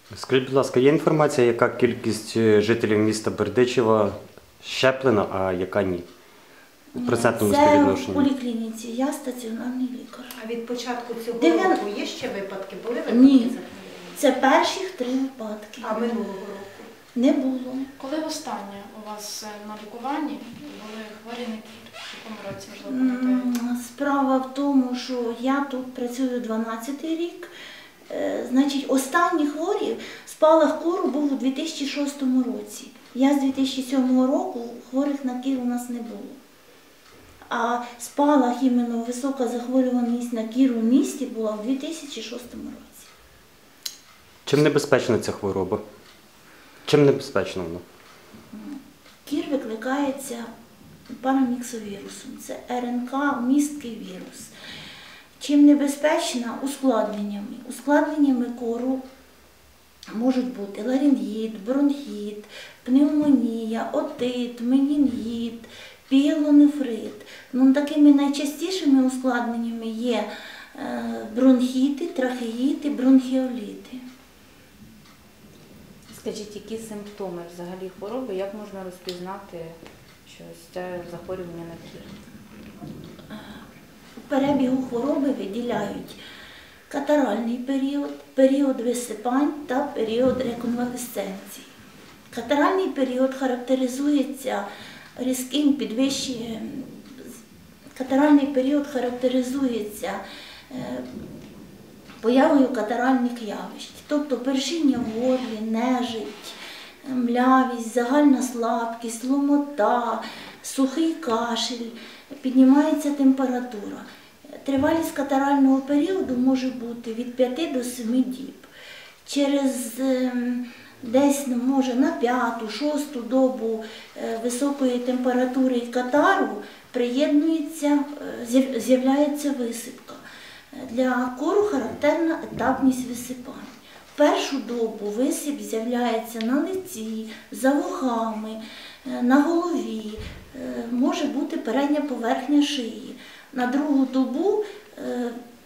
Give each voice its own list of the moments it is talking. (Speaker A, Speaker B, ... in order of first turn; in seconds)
Speaker A: 0.1-6.0, 7.0-8.3, 44.5-45.8, 46.9-47.8
Speaker B: 6.9-10.3, 11.4-11.8, 13.1-13.6, 14.1-16.2, 17.1-17.9, 22.9-27.5, 28.1-36.4, 37.5-43.1, 48.5-50.5, 51.2-54.5, 55.4-59.0, 60.1-74.0, 83.3-83.6, 84.2-86.2, 86.9-91.7, 92.3-97.1, 98.0-101.1, 102.2-114.1, 114.6-118.7, 119.2-130.2, 130.7-145.4
Speaker C: 10.4-14.2, 15.8-16.9
Speaker D: 18.0-23.5
Speaker E: 76.1-82.1